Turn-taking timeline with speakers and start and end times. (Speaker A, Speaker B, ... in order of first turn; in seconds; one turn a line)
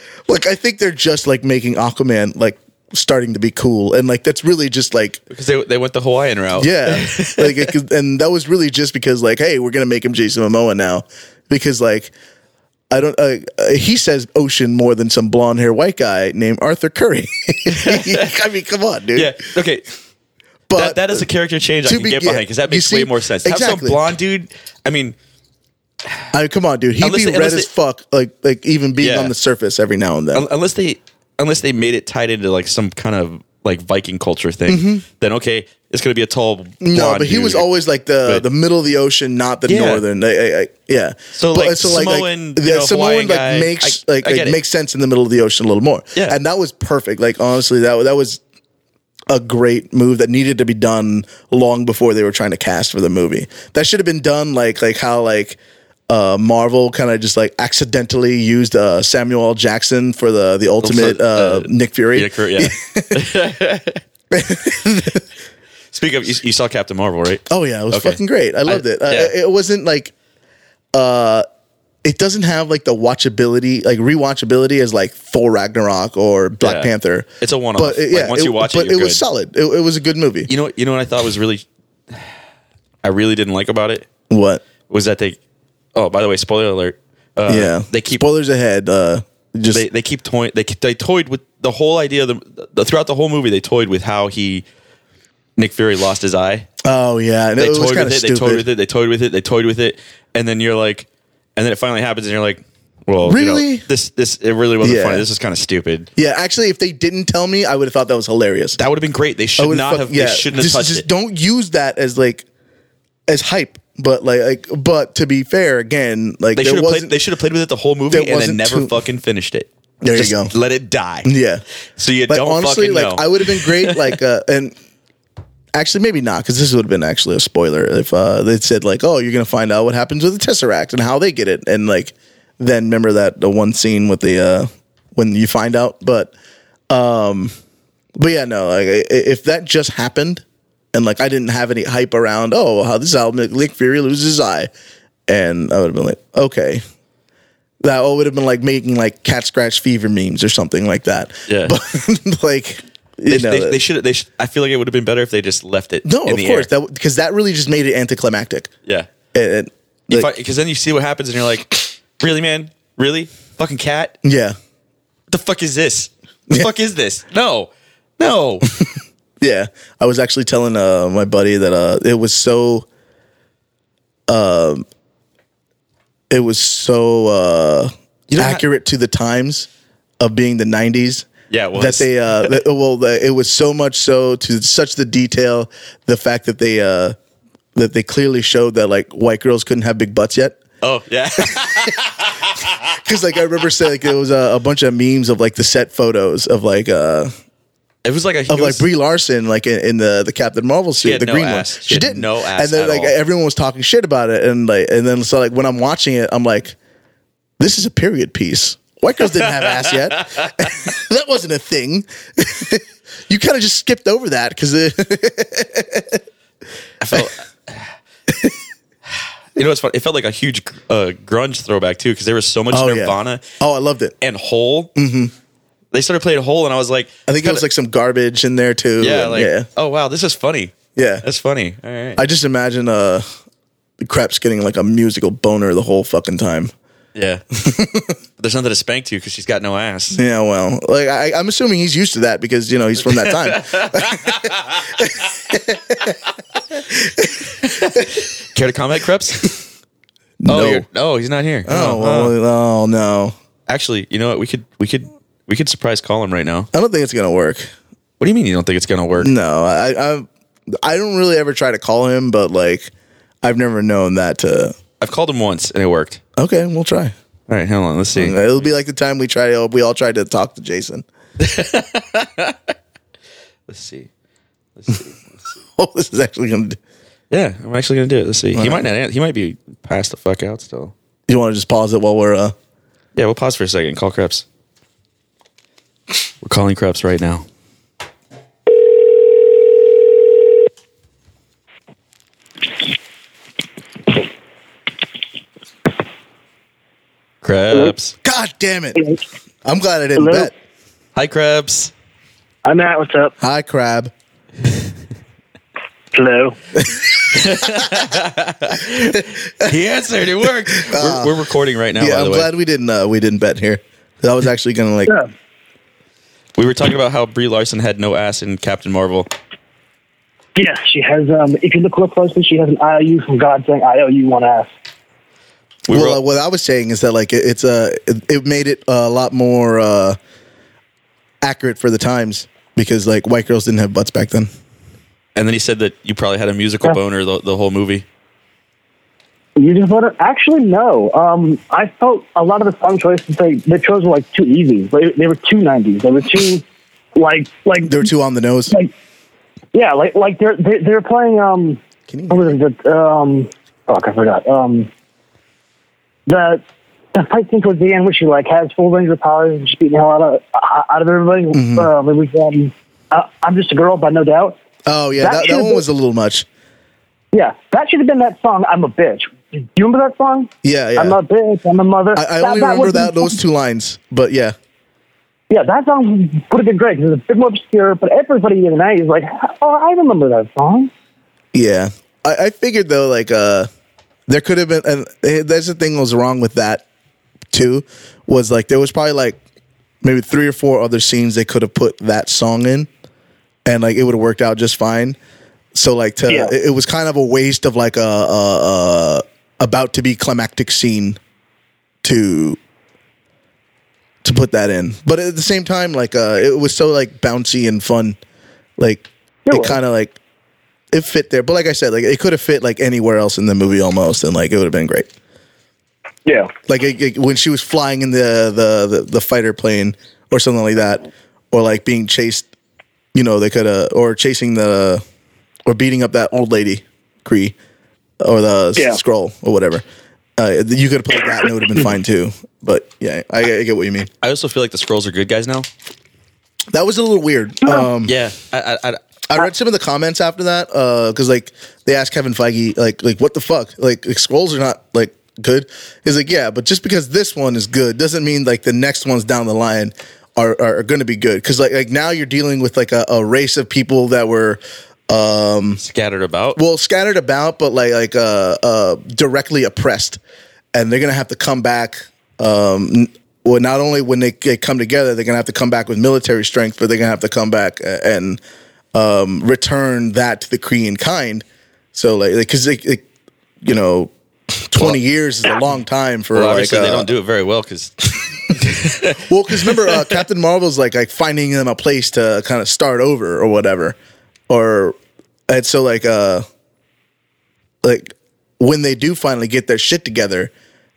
Speaker A: 0.3-5.2
Speaker B: 5.3-7.7
Speaker A: 6.6-12.1
Speaker A: 12.9-19.4
Speaker B: 17.7-18.3
Speaker B: 19.1-19.9
Speaker A: 20.7-21.3
Speaker B: 20.8-25.1
Speaker A: 21.9-24.0
Speaker A: 26.3-30.5
Speaker B: 27.0-27.7
Speaker B: 29.0-29.3
Speaker B: 30.3-37.7
Speaker A: 34.7-35.0
Speaker A: 36.8-48.4
Speaker B: 39.7-40.0
Speaker B: 41.4-44.6
Speaker A: 49.3-55.6
Speaker A: 56.1-63.2
Speaker B: 60.8-64.0
Speaker A: 64.3-65.2
Speaker B: 65.9-69.3
Speaker A: 67.5-70.1
Speaker A: 70.9-71.5
Speaker A: 72.0-80.5
Speaker B: 76.6-79.2
Speaker B: 80.5-82.3
Speaker B: 83.0-84.1
Speaker A: 84.3-84.6
Speaker B: 84.9-85.4
Speaker B: 86.0-88.2
Speaker A: 87.5-89.8
Speaker B: 89.7-94.7
Speaker B: 95.6-96.7
Speaker A: 96.8-98.7
Speaker B: 97.6-106.1
Speaker A: 103.2-103.8
Speaker A: 104.8-105.2
Speaker A: 106.2-108.8
Speaker B: 108.8-111.1
Speaker A: 109.6-112.5
Speaker A: 113.3-117.1
Speaker B: 116.6-121.3
Speaker A: 118.1-118.9
Speaker A: 120.0-120.5
Speaker A: 121.2-121.6
Speaker B: 122.0-124.2
Speaker A: 122.3-124.8
Speaker A: 125.8-136.3
Speaker A: 136.9-137.5
Speaker A: 138.2-144.7
Speaker A: 145.3-146.8
Speaker A: 147.8-153.8
Speaker B: 151.5-151.8
Speaker B: 153.3-156.7
Speaker A: 156.1-158.7
Speaker A: 159.3-160.3
Speaker B: 160.1-164.2
Speaker A: 164.2-164.6
Speaker B: 165.3-168.7
Speaker A: 169.4-172.9
Speaker A: 174.3-174.8
Speaker A: 176.3-179.7
Speaker B: 178.3-178.6
Speaker A: 180.2-187.2
Speaker B: 181.5-182.6
Speaker A: 187.8-190.6
Speaker B: 190.8-193.0
Speaker A: 191.4-191.9
Speaker A: 192.9-197.3
Speaker B: 198.1-198.9
Speaker A: 198.5-206.8
Speaker B: 201.0-203.2
Speaker A: 207.6-216.2
Speaker B: 209.4-210.8
Speaker B: 217.0-217.9
Speaker A: 218.3-218.6
Speaker B: 219.6-223.4
Speaker A: 222.7-224.2
Speaker B: 224.2-224.9
Speaker A: 225.0-225.3
Speaker B: 225.9-227.6
Speaker A: 227.3-229.7
Speaker B: 229.0-232.2
Speaker A: 231.0-231.2
Speaker A: 232.2-233.2
Speaker A: 234.0-236.7
Speaker B: 237.2-237.4
Speaker A: 237.5-238.2
Speaker B: 238.4-240.2
Speaker A: 240.1-246.2
Speaker B: 243.0-245.0
Speaker A: 246.7-248.1
Speaker B: 247.6-249.5
Speaker A: 250.4-250.9
Speaker B: 250.5-252.3
Speaker A: 251.7-253.3
Speaker B: 253.7-256.7
Speaker A: 256.7-257.7
Speaker B: 258.2-259.3
Speaker A: 259.2-260.3
Speaker A: 260.8-262.9
Speaker A: 263.4-264.8
Speaker B: 265.0-266.2
Speaker A: 266.4-267.1
Speaker B: 267.5-268.4
Speaker A: 268.2-271.1
Speaker B: 271.4-272.6
Speaker B: 273.7-274.1
Speaker B: 274.8-275.5
Speaker A: 275.8-276.8
Speaker B: 277.3-280.9
Speaker A: 278.5-278.8
Speaker A: 281.3-282.5
Speaker B: 283.1-284.4
Speaker B: 286.4-287.4
Speaker B: 297.4-298.1
Speaker A: 298.2-299.1
Speaker A: 299.6-300.5
Speaker C: 300.2-300.5
Speaker B: 301.1-301.9
Speaker C: 302.6-303.3
Speaker A: 303.4-304.1
Speaker C: 306.1-306.6
Speaker A: 306.8-308.1
Speaker B: 307.3-312.5
Speaker A: 309.1-309.7
Speaker A: 310.7-311.3
Speaker A: 312.0-315.2
Speaker B: 316.6-319.3
Speaker C: 320.6-324.7
Speaker B: 325.9-326.2
Speaker A: 325.9-330.2
Speaker A: 331.4-334.5
Speaker B: 335.4-338.1
Speaker C: 339.6-346.6
Speaker C: 347.1-348.0
Speaker A: 347.8-348.8
Speaker C: 349.7-354.9
Speaker A: 352.1-352.6
Speaker C: 356.3-356.6
Speaker C: 357.1-364.6
Speaker A: 361.5-361.9
Speaker A: 364.9-366.5
Speaker C: 365.2-365.8
Speaker C: 367.3-373.4
Speaker A: 370.6-371.2
Speaker A: 372.1-374.6
Speaker C: 375.5-380.9
Speaker A: 381.5-383.7
Speaker A: 384.3-386.9
Speaker A: 387.5-389.4
Speaker A: 390.0-392.9
Speaker A: 393.7-395.2
Speaker A: 395.7-401.2
Speaker A: 402.0-402.6
Speaker A: 404.2-408.2
Speaker A: 408.8-410.2
Speaker C: 409.5-409.8
Speaker A: 410.9-415.1
Speaker C: 416.3-416.5
Speaker A: 416.7-422.5
Speaker A: 423.1-425.0
Speaker A: 425.7-427.6
Speaker A: 428.2-429.8
Speaker A: 430.4-434.1
Speaker B: 434.2-435.7
Speaker A: 436.7-438.1
Speaker B: 438.1-439.0
Speaker A: 439.3-455.8
Speaker B: 455.8-456.6
Speaker A: 456.6-460.2
Speaker A: 460.7-468.4
Speaker A: 468.9-473.1
Speaker A: 473.6-474.1
Speaker A: 474.7-477.1
Speaker B: 476.3-480.2
Speaker A: 479.3-484.0
Speaker A: 484.5-485.0
Speaker A: 485.5-486.4
Speaker A: 487.8-490.5